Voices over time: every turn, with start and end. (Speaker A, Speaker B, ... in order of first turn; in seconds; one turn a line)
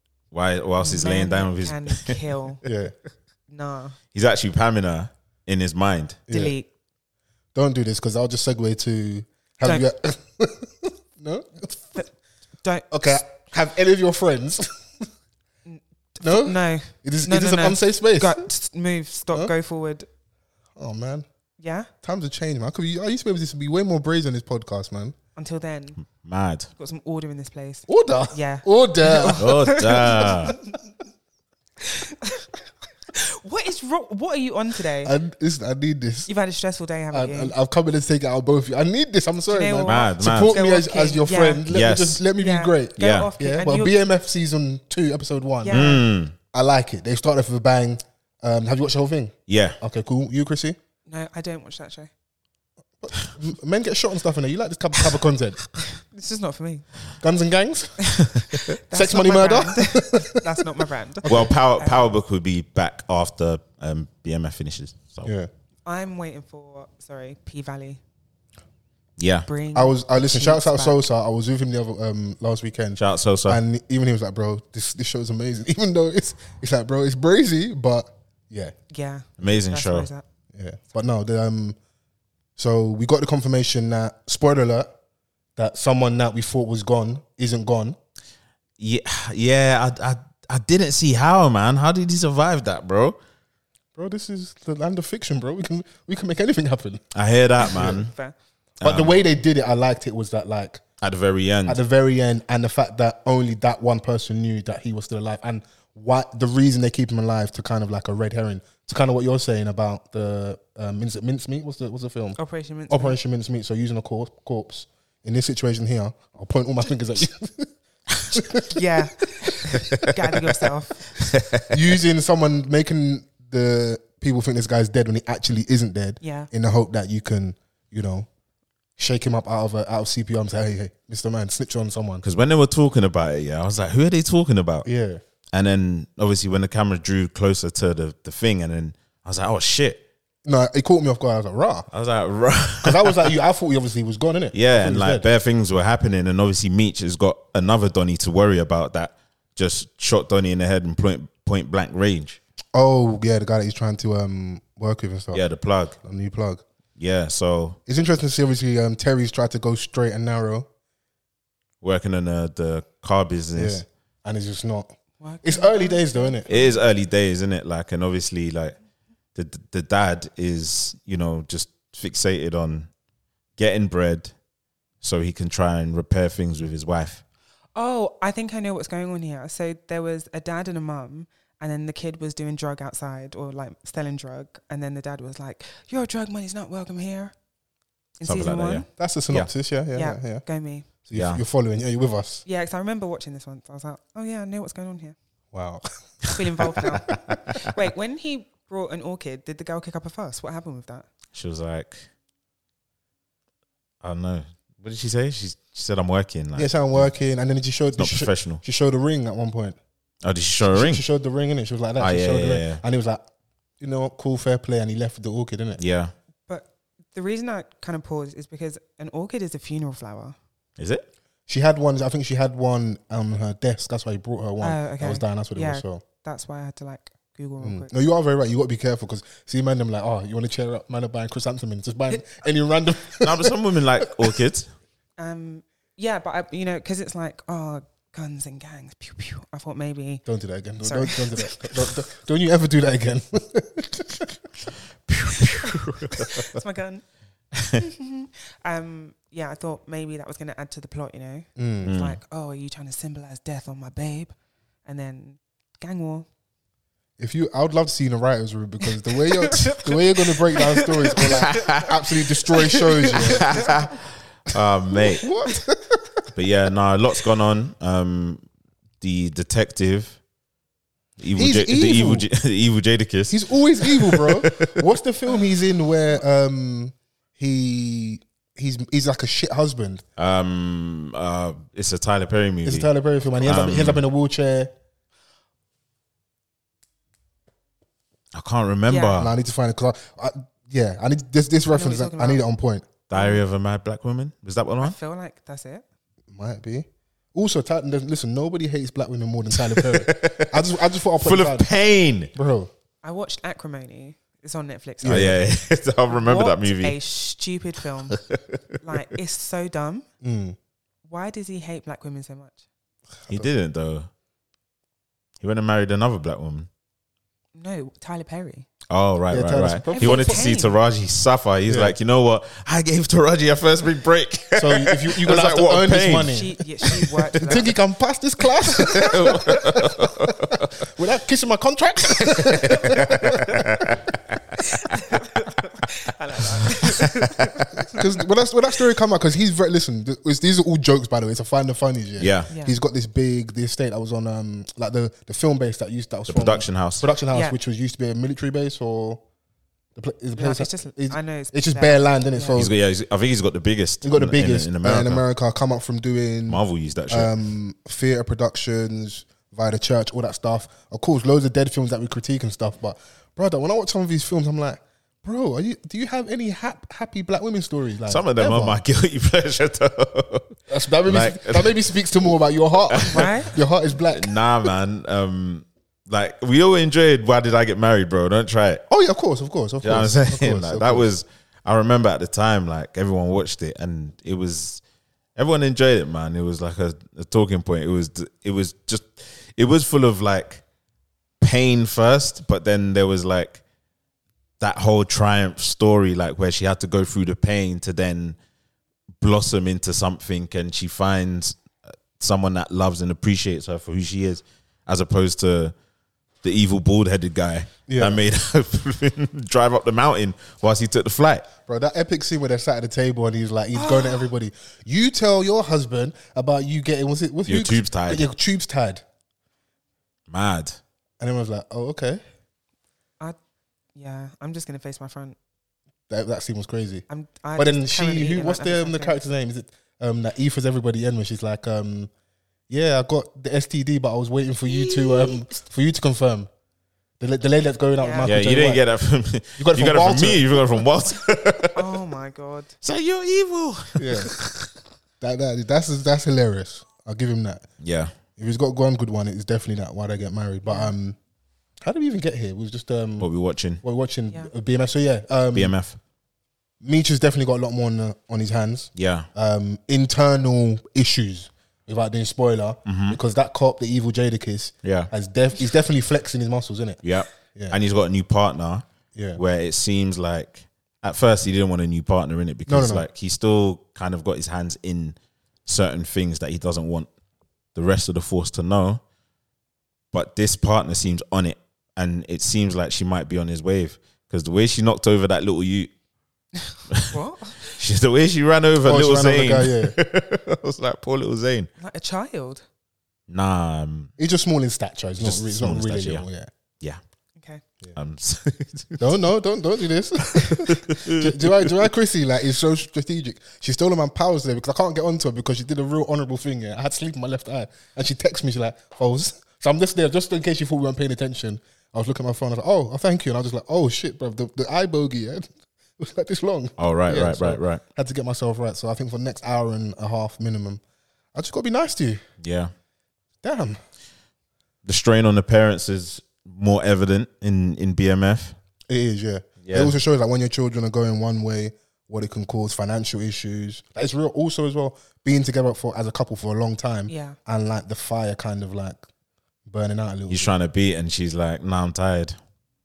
Speaker A: 0.3-2.2
Speaker B: 0.8-2.6
Speaker C: 2.6-2.9
Speaker B: 3.5-4.0
Speaker A: 4.1-6.2
Speaker C: 6.3-6.5
Speaker B: 6.3-6.7
Speaker C: 7.5-12.0
Speaker B: 12.6-12.9
Speaker C: 12.9-15.1
Speaker B: 15.7-20.1
Speaker C: 16.2-18.5
Speaker C: 20.8-21.3
Speaker B: 21.6-21.9
Speaker C: 22.0-25.2
Speaker B: 25.4-26.0
Speaker A: 26.1-26.7
Speaker B: 26.8-30.7
Speaker C: 27.9-30.3
Speaker A: 29.4-30.5
Speaker B: 31.8-32.5
Speaker B: 33.1-35.1
Speaker C: 35.0-36.3
Speaker B: 36.3-37.5
Speaker C: 37.1-46.0
Speaker B: 39.5-41.6
Speaker A: 39.9-40.5
Speaker A: 41.7-42.2
Speaker B: 42.4-44.0
Speaker A: 43.0-43.3
Speaker B: 45.6-46.0
Speaker A: 45.7-46.3
Speaker C: 46.5-50.8
Speaker A: 49.5-49.8
Speaker B: 51.1-52.1
Speaker C: 53.0-55.7
Speaker B: 56.0-56.9
Speaker C: 57.2-58.2
Speaker B: 58.9-62.1
Speaker C: 58.9-60.6
Speaker C: 61.2-61.5
Speaker A: 61.3-65.3
Speaker C: 65.2-65.5
Speaker B: 65.9-68.0
Speaker A: 69.2-69.5
Speaker B: 69.5-71.0
Speaker C: 69.7-78.7
Speaker A: 73.0-73.6
Speaker B: 78.9-80.2
Speaker A: 79.4-80.1
Speaker C: 80.5-81.8
Speaker C: 82.6-84.9
Speaker C: 85.6-88.0
Speaker A: 88.8-93.2
Speaker C: 94.0-97.1
Speaker A: 97.1-98.1
Speaker C: 97.6-98.0
Speaker B: 97.7-98.3
Speaker A: 98.8-99.2
Speaker C: 98.8-100.8
Speaker A: 101.0-101.8
Speaker C: 101.7-112.4
Speaker B: 112.4-113.2
Speaker C: 112.9-117.7
Speaker C: 118.3-118.8
Speaker B: 118.7-121.0
Speaker A: 121.3-121.7
Speaker C: 121.7-128.3
Speaker B: 126.2-126.5
Speaker C: 129.0-132.2
Speaker A: 132.2-134.9
Speaker C: 134.8-135.2
Speaker A: 135.5-140.0
Speaker C: 140.4-141.9
Speaker A: 141.9-143.3
Speaker C: 142.8-145.3
Speaker A: 144.5-152.4
Speaker C: 152.7-155.4
Speaker A: 155.3-156.0
Speaker C: 156.0-156.6
Speaker A: 157.0-157.8
Speaker C: 157.9-160.7
Speaker A: 161.8-163.8
Speaker C: 163.6-166.5
Speaker B: 165.2-166.8
Speaker A: 166.5-168.8
Speaker A: 169.3-172.9
Speaker A: 173.6-174.3
Speaker A: 175.0-177.2
Speaker B: 177.8-187.3
Speaker B: 188.2-188.9
Speaker A: 188.2-189.5
Speaker C: 189.0-190.4
Speaker B: 189.9-190.9
Speaker C: 191.0-192.4
Speaker A: 191.1-191.4
Speaker B: 192.5-195.2
Speaker C: 195.5-195.9
Speaker B: 196.3-201.1
Speaker A: 201.3-202.1
Speaker A: 204.0-207.1
Speaker C: 206.6-209.8
Speaker A: 208.0-208.6
Speaker A: 210.2-211.0
Speaker C: 210.7-213.2
Speaker A: 212.0-212.8
Speaker C: 213.8-215.8
Speaker A: 215.8-216.1
Speaker B: 216.5-220.4
Speaker A: 220.8-221.1
Speaker C: 221.5-226.0
Speaker B: 224.6-227.9
Speaker C: 227.6-233.6
Speaker A: 233.2-234.7
Speaker B: 235.2-240.2
Speaker C: 240.3-244.4
Speaker B: 240.8-241.7
Speaker B: 246.1-247.0
Speaker B: 247.8-254.3
Speaker C: 251.6-252.0
Speaker A: 251.9-252.2
Speaker B: 254.8-256.3
Speaker C: 257.2-263.7
Speaker B: 259.1-261.8
Speaker A: 261.2-261.9
Speaker B: 262.5-263.8
Speaker A: 263.2-265.2
Speaker C: 265.2-266.3
Speaker A: 266.4-268.4
Speaker A: 269.0-270.2
Speaker A: 271.2-274.9
Speaker C: 271.4-272.3
Speaker C: 273.3-280.0
Speaker A: 280.2-282.9
Speaker C: 282.6-284.7
Speaker A: 283.4-284.0
Speaker A: 288.3-289.3
Speaker B: 288.9-289.2
Speaker C: 289.1-293.0
Speaker B: 291.7-292.4
Speaker A: 293.1-295.0
Speaker B: 294.8-295.8
Speaker C: 296.3-301.7
Speaker A: 299.7-302.3
Speaker C: 302.4-302.7
Speaker B: 303.0-305.4
Speaker C: 305.0-305.4
Speaker A: 305.1-307.0
Speaker B: 306.1-308.2
Speaker A: 308.1-308.6
Speaker B: 308.8-310.1
Speaker C: 310.2-310.6
Speaker B: 311.1-312.6
Speaker A: 313.3-314.1
Speaker A: 315.4-316.7
Speaker B: 317.6-318.7
Speaker A: 318.9-327.4
Speaker C: 319.3-320.5
Speaker B: 319.9-320.8
Speaker C: 321.7-322.0
Speaker C: 324.6-326.5
Speaker B: 326.3-327.7
Speaker C: 327.4-333.8
Speaker A: 328.8-330.6
Speaker B: 329.0-329.4
Speaker A: 332.5-334.0
Speaker B: 332.8-333.4
Speaker B: 334.9-338.0
Speaker C: 337.9-349.2
Speaker A: 342.2-342.5
Speaker B: 342.5-342.8
Speaker A: 346.3-347.1
Speaker C: 350.0-352.7
Speaker B: 350.4-352.6
Speaker A: 352.6-355.2
Speaker C: 354.0-368.8
Speaker A: 356.5-357.3
Speaker A: 368.1-372.0
Speaker C: 370.7-374.7
Speaker A: 372.9-373.3
Speaker B: 373.1-373.5
Speaker A: 374.1-378.8
Speaker C: 378.9-381.1
Speaker A: 379.8-384.8
Speaker A: 385.4-390.6
Speaker A: 391.4-393.6
Speaker A: 394.6-398.4
Speaker A: 399.2-401.6
Speaker A: 402.2-405.7
Speaker A: 406.4-411.5
Speaker C: 407.9-408.2
Speaker C: 411.6-419.0
Speaker B: 413.8-414.3
Speaker A: 417.5-418.2
Speaker A: 420.3-420.8
Speaker C: 421.2-422.2
Speaker B: 423.9-425.4
Speaker C: 426.1-427.1
Speaker B: 427.1-429.2
Speaker C: 427.6-432.1
Speaker C: 432.7-436.5
Speaker B: 434.7-435.6
Speaker C: 437.2-438.8
Speaker B: 438.0-438.3
Speaker A: 438.2-441.8
Speaker C: 439.6-440.8
Speaker B: 441.7-442.7
Speaker A: 442.8-444.7
Speaker C: 444.0-444.3
Speaker C: 445.2-447.7
Speaker A: 447.8-448.1
Speaker C: 448.4-451.2
Speaker B: 450.7-450.9
Speaker C: 451.8-453.3
Speaker A: 453.2-453.8
Speaker C: 453.8-455.7
Speaker A: 455.5-456.0
Speaker C: 456.8-467.0
Speaker A: 459.0-459.3
Speaker A: 462.9-463.2
Speaker A: 464.8-465.1
Speaker A: 467.0-468.8
Speaker C: 469.1-469.4
Speaker A: 469.4-477.1
Speaker C: 472.7-473.1
Speaker A: 477.8-479.0
Speaker A: 480.1-485.9
Speaker B: 486.7-487.8
Speaker A: 487.6-491.7
Speaker C: 488.9-490.0
Speaker B: 491.8-492.6
Speaker A: 493.3-494.1
Speaker C: 494.2-496.5
Speaker A: 495.2-496.2
Speaker B: 497.4-497.6
Speaker A: 497.9-499.1
Speaker C: 499.0-520.8
Speaker A: 500.5-501.7
Speaker A: 516.8-517.8
Speaker C: 521.4-522.2
Speaker A: 522.4-522.7
Speaker C: 523.4-523.8
Speaker A: 524.9-528.6
Speaker C: 528.9-539.0
Speaker A: 529.6-530.0
Speaker B: 537.1-537.4
Speaker C: 539.7-540.5
Speaker A: 540.3-542.4